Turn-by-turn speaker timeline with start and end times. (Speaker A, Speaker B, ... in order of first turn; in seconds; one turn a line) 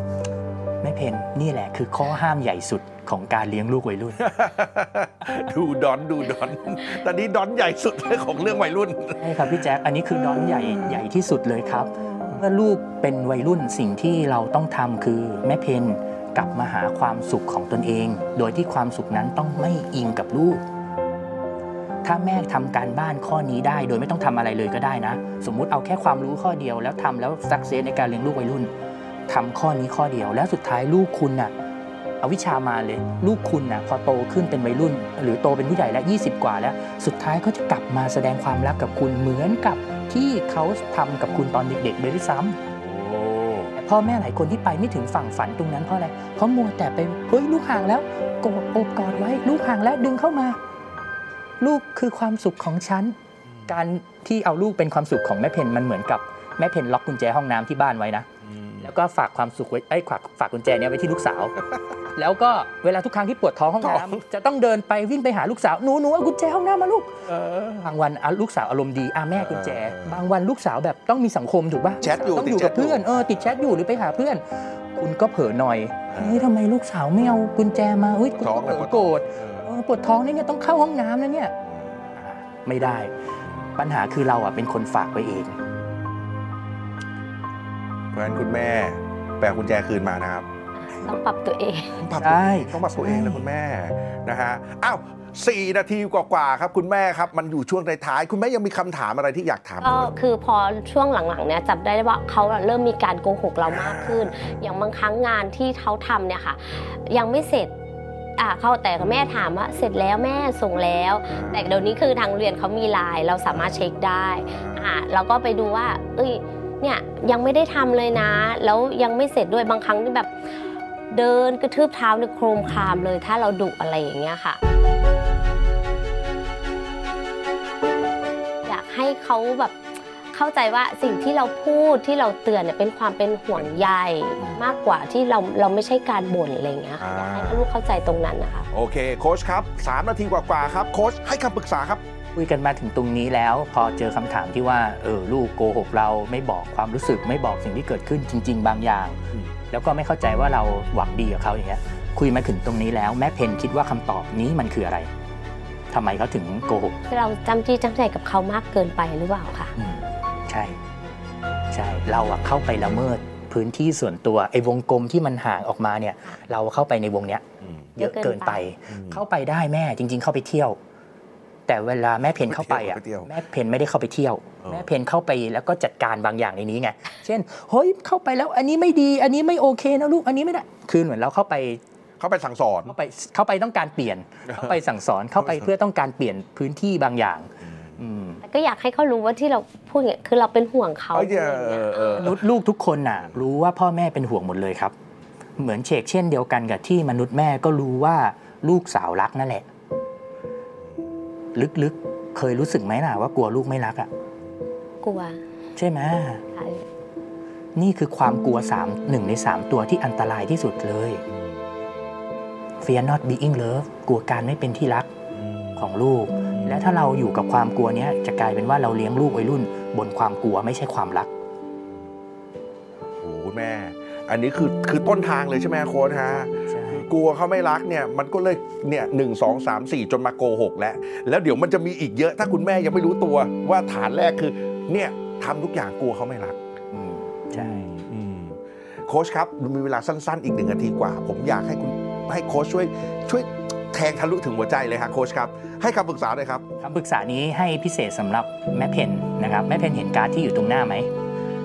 Speaker A: 0.8-4.3
Speaker B: 4.2-11.0
Speaker A: 9.1-20.6
Speaker A: 22.0-28.7
Speaker A: 29.3-31.5
Speaker A: 32.2-42.6
Speaker B: 42.7-43.7
Speaker A: 43.7-50.6
Speaker A: 51.6-53.1
Speaker B: 53.5-53.8
Speaker A: 53.7-58.3
Speaker B: 58.4-58.9
Speaker A: 58.8-61.5
Speaker A: 62.1-67.2
Speaker B: 63.8-64.2
Speaker B: 67.3-67.9
Speaker A: 67.8-74.4
Speaker B: 69.4-70.2
Speaker B: 72.0-73.1
Speaker A: 75.0-81.5
Speaker B: 76.1-76.4
Speaker B: 78.4-79.7
Speaker B: 81.7-82.0
Speaker A: 82.1-83.1
Speaker A: 83.8-85.6
Speaker B: 88.1-90.5
Speaker C: 90.8-92.0
Speaker B: 92.0-100.1
Speaker A: 92.2-93.4
Speaker C: 99.8-107.7
Speaker B: 103.6-104.6
Speaker C: 108.4-120.3
Speaker B: 111.3-111.7
Speaker B: 114.4-114.9
Speaker C: 121.1-124.6
Speaker C: 128.6-129.8
Speaker C: 130.3-138.7
Speaker B: 137.0-137.6
Speaker B: 138.7-142.0
Speaker A: 142.3-149.2
Speaker A: 149.7-155.1
Speaker A: 155.9-157.0
Speaker C: 157.1-159.7
Speaker A: 159.8-160.8
Speaker A: 161.7-167.4
Speaker B: 167.6-168.0
Speaker C: 168.0-168.7
Speaker A: 168.0-170.8
Speaker B: 168.9-169.2
Speaker A: 171.7-181.8
Speaker B: 172.4-173.3
Speaker B: 182.2-182.9
Speaker A: 182.8-188.4
Speaker B: 185.4-185.6
Speaker B: 187.7-188.0
Speaker C: 188.4-192.3
Speaker B: 191.1-192.4
Speaker A: 192.2-194.9
Speaker A: 195.6-199.7
Speaker A: 201.5-204.1
Speaker C: 205.0-205.4
Speaker A: 205.8-206.4
Speaker C: 206.5-206.8
Speaker A: 207.7-211.2
Speaker A: 212.8-215.1
Speaker B: 215.3-215.9
Speaker A: 215.8-221.3
Speaker B: 216.5-216.8
Speaker B: 223.2-236.6
Speaker A: 226.6-227.1
Speaker A: 236.9-237.9
Speaker B: 237.5-246.6
Speaker A: 246.8-251.1